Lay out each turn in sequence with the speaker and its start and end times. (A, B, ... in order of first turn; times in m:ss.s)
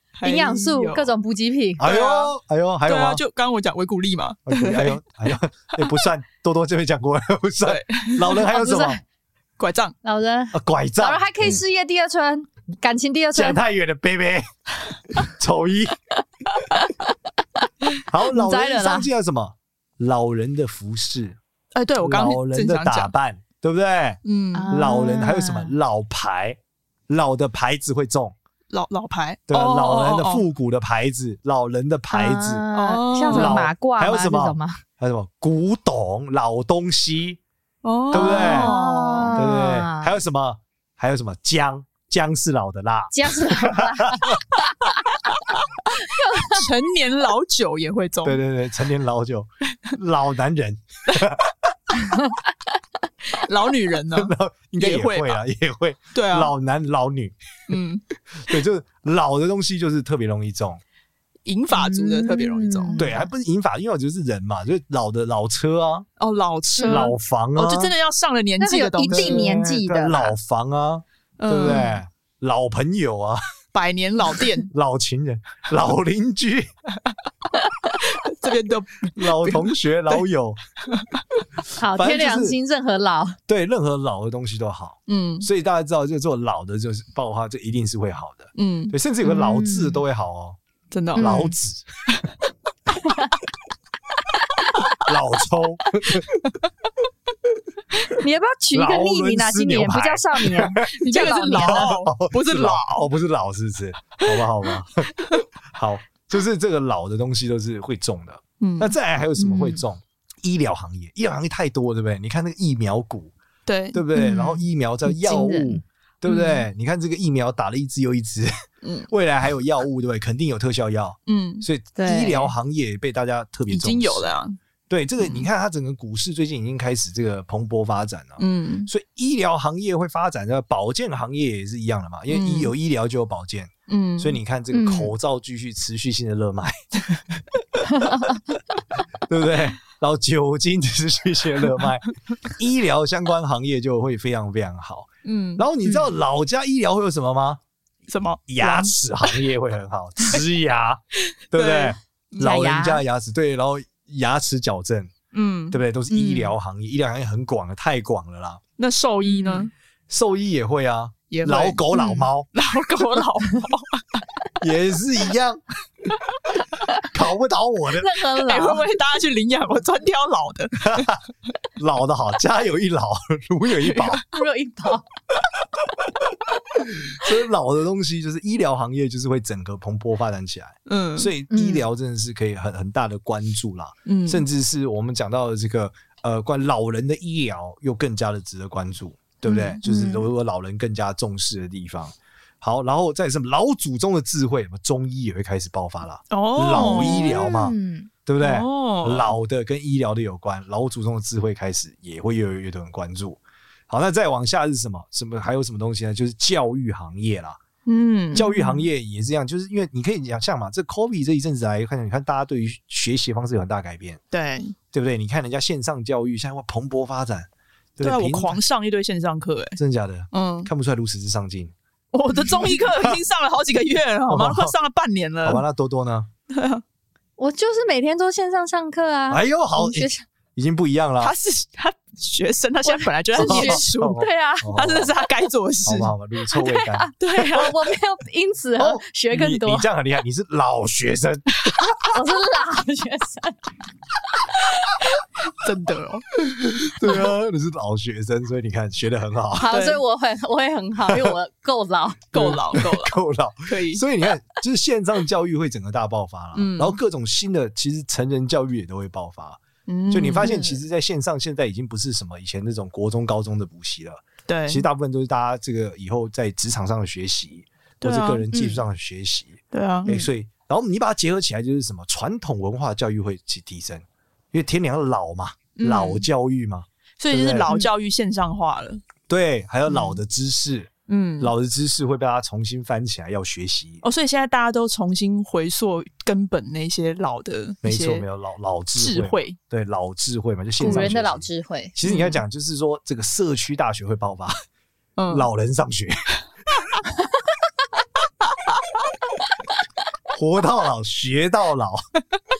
0:00.1-0:01.1 A
0:00.2-0:01.9 B
0:01.8-0:03.2 C
0:01.8-0:02.3 A
0:02.8-0:05.0 A
0:04.5-0:09.0 C
0:07.6-0:08.4 A
0:08.4-0:09.0 B
0:09.6-0:09.9 A
0:10.0-0:13.6 B
0:10.5-0:11.6 C
0:13.3-0:14.5 C
0:15.1-0:16.0 C
0:16.5-0:16.9 B
0:18.0-0:21.4 C
0:18.3-0:19.1 B
0:21.7-0:23.1 A
0:22.0-0:26.6 C
0:24.2-0:24.7 A
0:24.5-0:25.7 B
0:27.1-0:28.3 C
0:28.7-0:30.4 A
0:29.5-0:32.7 C
0:32.1-0:34.8 B
0:32.7-0:33.6 A
0:33.3-0:37.4 C
0:37.8-0:39.4 A
0:38.1-0:38.7 C
0:38.1-0:40.1 B
0:39.3-0:44.4 C
0:43.1-0:44.7 B
0:45.3-0:45.6 A
0:46.0-0:46.6 B
0:46.4-0:48.4 A
0:48.2-0:51.7 C
0:53.3-0:55.4 A
0:54.1-0:57.3 C
0:56.1-0:56.5 A
0:57.7-0:58.0 A
0:58.4-1:00.8 C
1:01.4-1:03.0 A
1:01.8-1:03.3 B
1:03.0-1:06.1 C
1:06.2-1:09.6 A
1:06.8-1:07.0 B
1:06.8-1:07.9 C
1:08.6-1:10.4 B
1:09.1-1:13.4 C
1:11.4-1:12.0 A
1:11.6-1:11.9 B
1:13.7-1:14.7 A
1:14.7-1:16.7 C
1:18.0-1:19.7 A
1:19.1-1:20.6 C
1:20.9-1:21.2 A
1:21.8-1:23.4 B
1:21.9-1:22.6 C
1:23.5-1:30.6 C
1:25.1-1:25.5 A
1:28.5-1:29.0 A
1:29.2-1:30.0 B
1:30.9-1:31.5 A
1:31.2-1:31.5 B
1:31.2-1:31.8 C
1:33.0-1:33.3 B
1:35.0-1:36.4 C
1:38.0-1:41.9 B
1:38.7-1:45.1 C
1:40.9-1:43.1 A
1:45.7-1:53.3 C
1:48.6-1:48.9 A
1:49.4-1:49.8 B
1:53.6-1:54.0 A
1:53.9-1:58.5 C
1:54.1-1:55.8 B
1:56.2-1:56.6 A
1:58.8-1:59.1 A
1:59.1-2:04.3 C
2:01.2-2:01.6 A
2:02.0-2:02.5 B
2:03.7-2:04.6 A
2:04.9-2:18.5 C
2:08.4-2:08.9 A
2:12.3-2:12.7 A
2:13.9-2:14.4 A
2:14.7-2:15.1 B
2:19.3-2:27.6 C
2:25.2-2:25.6 A
2:25.8-2:26.1 B
2:28.1-2:29.3 A
2:28.5-2:35.1 C
2:31.5-2:32.5 A
2:32.4-2:33.0 B
2:35.3-2:36.4 A
2:35.7-2:38.6 C
2:38.8-2:39.7 A
2:39.3-2:39.7 B
2:40.1-2:43.2 C
2:41.3-2:44.2 A
2:44.6-2:46.2 C
2:47.1-2:48.1 C
2:47.9-2:48.8 B
2:48.4-2:51.2 A
2:50.8-2:51.2 C
2:51.8-2:54.2 C
2:53.8-2:54.2 A
2:54.3-2:55.0 B
2:55.4-3:17.7 C
3:00.8-3:01.3 A
3:01.5-3:01.8 B
3:04.0-3:04.4 A
3:09.4-3:09.8 A
3:09.5-3:10.2 B
3:16.3-3:17.4 A
3:16.7-3:18.1 B
3:18.2-3:27.6 C
3:18.4-3:19.3 A
3:27.8-3:28.8 A
3:28.3-3:34.2 C
3:34.3-3:34.7 A
3:34.9-3:38.6 C
3:38.0-3:39.8 A
3:39.8-3:41.7 C
3:40.3-3:40.7 A
3:42.1-3:45.6 A
3:42.4-3:43.2 C
3:44.3-3:44.7 C
3:45.4-3:46.3 C
3:46.5-3:46.8 A
3:47.4-3:50.2 B
3:49.3-3:51.3 C
3:51.2-3:56.1 A
3:52.9-3:54.7 B
3:53.4-3:55.1 C
3:55.8-3:57.1 C
3:56.6-3:59.8 B
3:57.2-3:57.8 A
3:58.8-4:02.0 C
4:02.0-4:03.6 B
4:04.8-4:06.3 A
4:06.4-4:09.7 C
4:09.6-4:12.3 B
4:09.7-4:10.0 A
4:11.0-4:11.4 C
4:12.3-4:13.1 A
4:12.3-4:37.7 C
4:13.6-4:14.0 A
4:16.5-4:17.0 A
4:19.9-4:20.8 A
4:24.5-4:24.9 A
4:28.0-4:28.5 A
4:28.5-4:28.8 B
4:29.7-4:30.1 A
4:35.8-4:36.3 A
4:37.2-4:39.0 A
4:39.3-4:44.0 C
4:41.1-4:41.5 A
4:44.0-4:48.2 A
4:47.8-4:54.6 C
4:49.0-4:49.6 A
4:50.8-4:51.9 B
4:50.8-4:51.1 A
4:52.0-4:52.4 A
4:55.2-4:55.5 A
4:55.3-4:56.2 C
4:58.4-4:58.8 A
5:00.3-5:02.0 C